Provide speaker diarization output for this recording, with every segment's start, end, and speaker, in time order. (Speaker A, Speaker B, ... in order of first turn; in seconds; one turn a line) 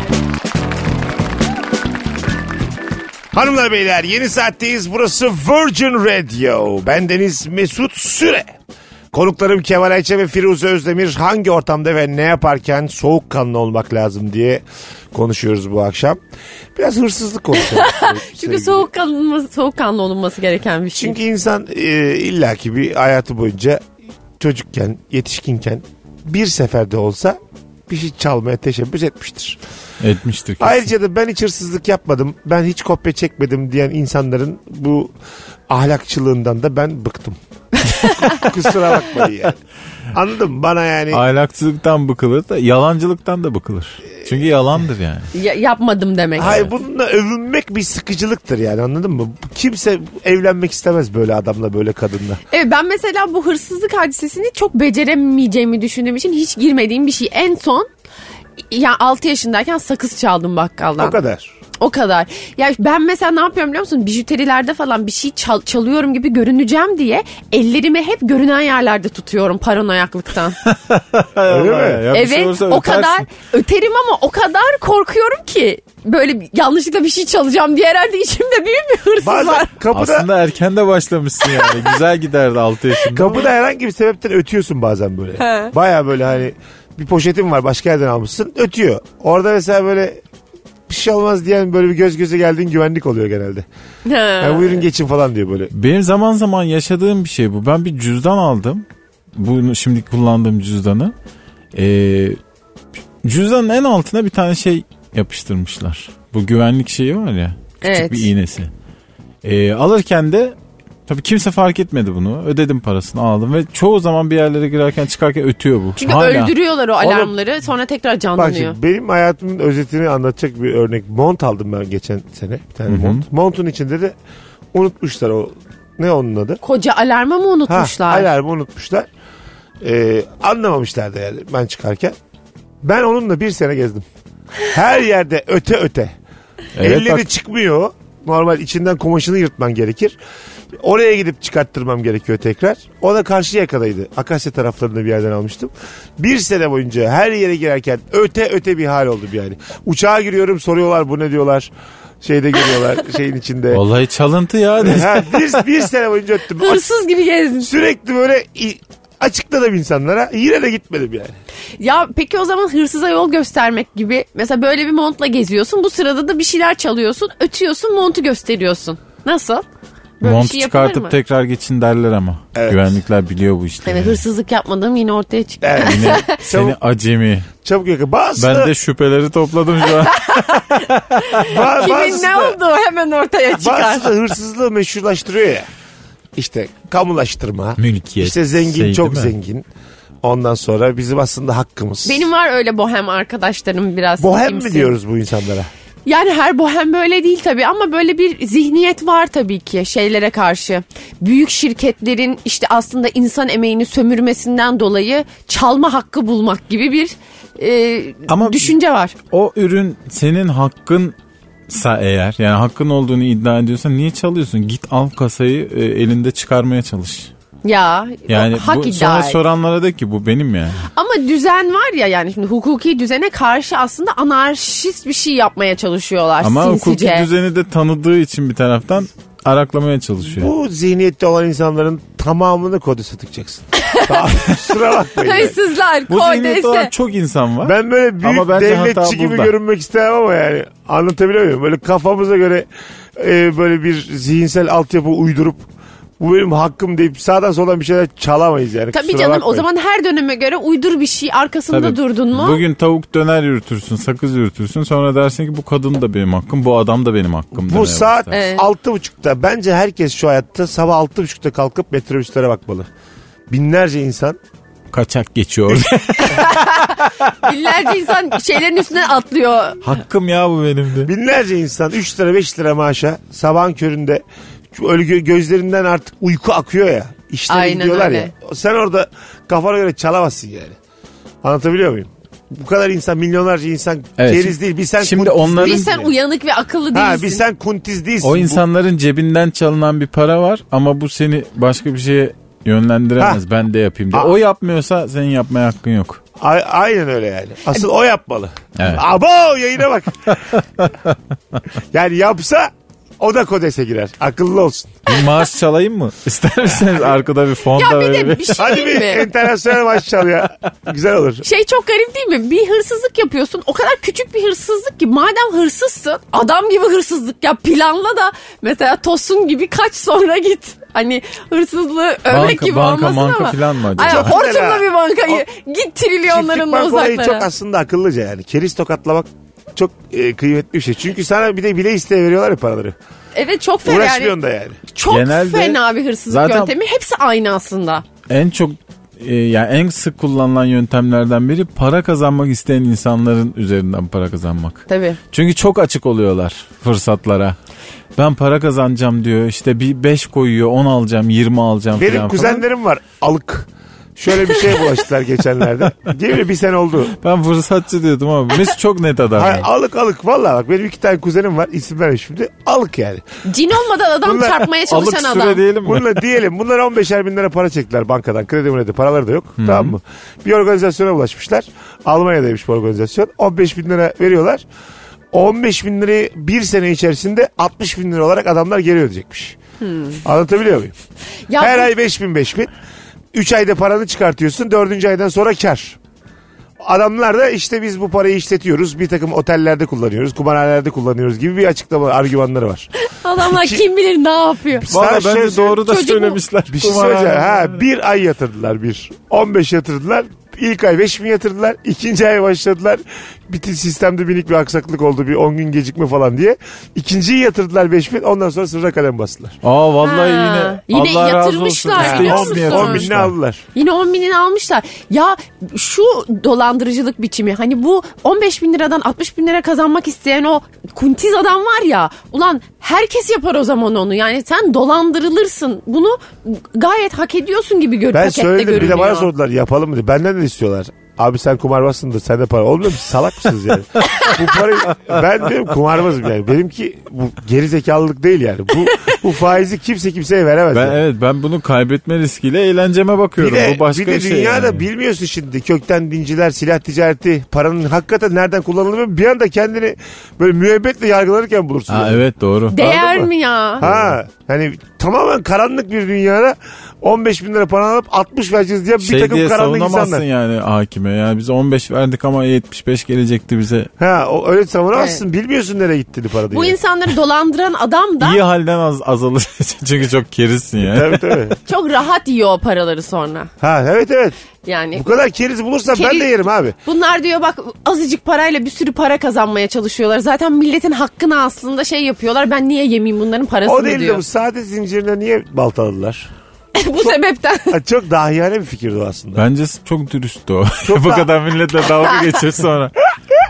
Speaker A: 3.3-8.5
Speaker A: 9.1-16.2
Speaker A: 16.8-18.9
Speaker B: 17.6-21.2
Speaker A: 20.9-23.8
Speaker A: 24.4-29.6
Speaker C: 30.0-30.9
Speaker A: 30.6-35.1
Speaker A: 35.7-37.4
Speaker B: 37.9-38.4
Speaker A: 38.2-39.5
Speaker A: 40.1-41.2
Speaker C: 41.1-45.3
Speaker B: 45.3-46.6
Speaker A: 46.4-52.4
Speaker B: 52.5-57.9
Speaker B: 58.7-61.2
Speaker A: 61.0-61.5
Speaker B: 61.8-70.6
Speaker C: 70.6-73.3
Speaker A: 71.5-72.0
Speaker B: 72.1-79.7
Speaker A: 79.2-80.3
Speaker C: 79.9-83.4
Speaker B: 81.5-81.9
Speaker A: 83.1-90.2
Speaker B: 85.4-85.7
Speaker A: 90.9-93.7
Speaker B: 94.0-94.8
Speaker A: 94.4-95.7
Speaker C: 95.7-98.8
Speaker C: 99.3-101.1
Speaker C: 101.7-102.4
Speaker C: 103.2-108.7
Speaker B: 107.8-108.3
Speaker C: 109.4-110.5
Speaker C: 111.1-116.5
Speaker B: 116.0-118.8
Speaker A: 117.0-117.3
Speaker A: 118.4-124.1
Speaker C: 122.9-123.2
Speaker A: 124.7-126.6
Speaker B: 126.6-128.3
Speaker A: 127.7-129.1
Speaker A: 129.8-132.1
Speaker A: 132.8-134.0
Speaker A: 134.7-136.1
Speaker C: 136.8-137.2
Speaker A: 136.8-140.2
Speaker A: 140.8-153.8
Speaker C: 153.7-155.6
Speaker A: 154.8-156.8
Speaker B: 156.6-157.7
Speaker A: 157.6-161.3
Speaker B: 161.8-169.7
Speaker B: 170.2-171.1
Speaker C: 170.2-174.2
Speaker A: 172.5-172.9
Speaker B: 173.8-176.4
Speaker A: 175.6-176.8
Speaker C: 175.8-177.5
Speaker A: 177.6-178.7
Speaker C: 178.4-181.5
Speaker B: 180.0-184.1
Speaker A: 181.4-182.6
Speaker A: 183.6-185.7
Speaker A: 186.3-189.7
Speaker C: 187.8-189.3
Speaker A: 190.2-192.2
Speaker B: 192.0-194.9
Speaker A: 194.2-195.7
Speaker B: 196.1-209.2
Speaker C: 208.3-211.1
Speaker C: 211.7-217.3
Speaker B: 217.6-219.4
Speaker C: 218.3-220.8
Speaker B: 220.9-227.3
Speaker C: 226.4-230.5
Speaker A: 230.3-235.6
Speaker B: 233.7-234.5
Speaker B: 235.0-236.9
Speaker C: 236.1-239.5
Speaker A: 237.6-245.6
Speaker A: 246.2-249.7
Speaker B: 248.9-252.6
Speaker C: 251.7-258.3
Speaker A: 257.5-262.9
Speaker B: 258.3-258.6
Speaker A: 263.5-264.4
Speaker C: 264.9-267.3
Speaker A: 265.7-265.9
Speaker B: 266.2-269.8
Speaker C: 269.8-271.1
Speaker A: 271.1-280.8
Speaker B: 277.5-278.3
Speaker A: 281.4-286.1
Speaker C: 284.2-286.0
Speaker B: 285.6-287.4
Speaker A: 286.9-288.6
Speaker C: 288.2-296.2
Speaker A: 296.4-300.4
Speaker C: 298.8-299.0
Speaker C: 300.5-300.9
Speaker A: 301.9-305.1
Speaker C: 305.1-308.8
Speaker B: 307.8-309.3
Speaker A: 308.6-311.4
Speaker B: 311.4-327.5
Speaker C: 322.3-324.3
Speaker A: 324.0-325.4
Speaker A: 326.2-332.9
Speaker B: 333.4-334.3
Speaker A: 333.8-334.8
Speaker B: 334.9-338.0
Speaker C: 335.1-336.7
Speaker C: 338.3-347.6
Speaker B: 344.9-345.2
Speaker C: 348.2-352.6
Speaker A: 351.9-357.1
Speaker C: 357.1-359.7
Speaker A: 359.4-363.2
Speaker B: 363.4-365.6
Speaker A: 364.2-364.7
Speaker C: 364.9-366.2
Speaker A: 365.8-374.6
Speaker C: 369.6-369.9
Speaker A: 375.3-379.6
Speaker B: 379.8-380.2
Speaker A: 380.2-380.9
Speaker B: 381.5-381.9
Speaker A: 381.6-382.7
Speaker A: 383.3-386.0
Speaker A: 386.8-393.8
Speaker B: 393.1-394.9
Speaker A: 394.8-395.8
Speaker C: 394.9-397.8
Speaker B: 395.8-396.4
Speaker A: 396.7-409.6
Speaker C: 409.6-413.3
Speaker B: 410.0-413.1
Speaker A: 412.0-413.6
Speaker B: 413.7-429.3
Speaker A: 428.1-441.0
Speaker C: 440.7-444.8
Speaker A: 443.4-452.2
Speaker C: 451.9-452.8
Speaker B: 452.7-453.8
Speaker A: 452.7-460.2
Speaker C: 453.8-454.1
Speaker C: 459.0-463.9
Speaker A: 464.0-466.8
Speaker B: 464.9-465.2
Speaker B: 466.5-468.4
Speaker C: 468.2-471.2
Speaker A: 470.8-471.6
Speaker B: 471.6-473.5
Speaker A: 473.6-474.4
Speaker B: 474.6-475.1
Speaker A: 474.9-476.8
Speaker B: 475.9-484.2
Speaker A: 483.6-486.3
Speaker B: 486.7-487.8
Speaker A: 487.7-489.4
Speaker C: 489.4-493.0
Speaker A: 490.8-491.3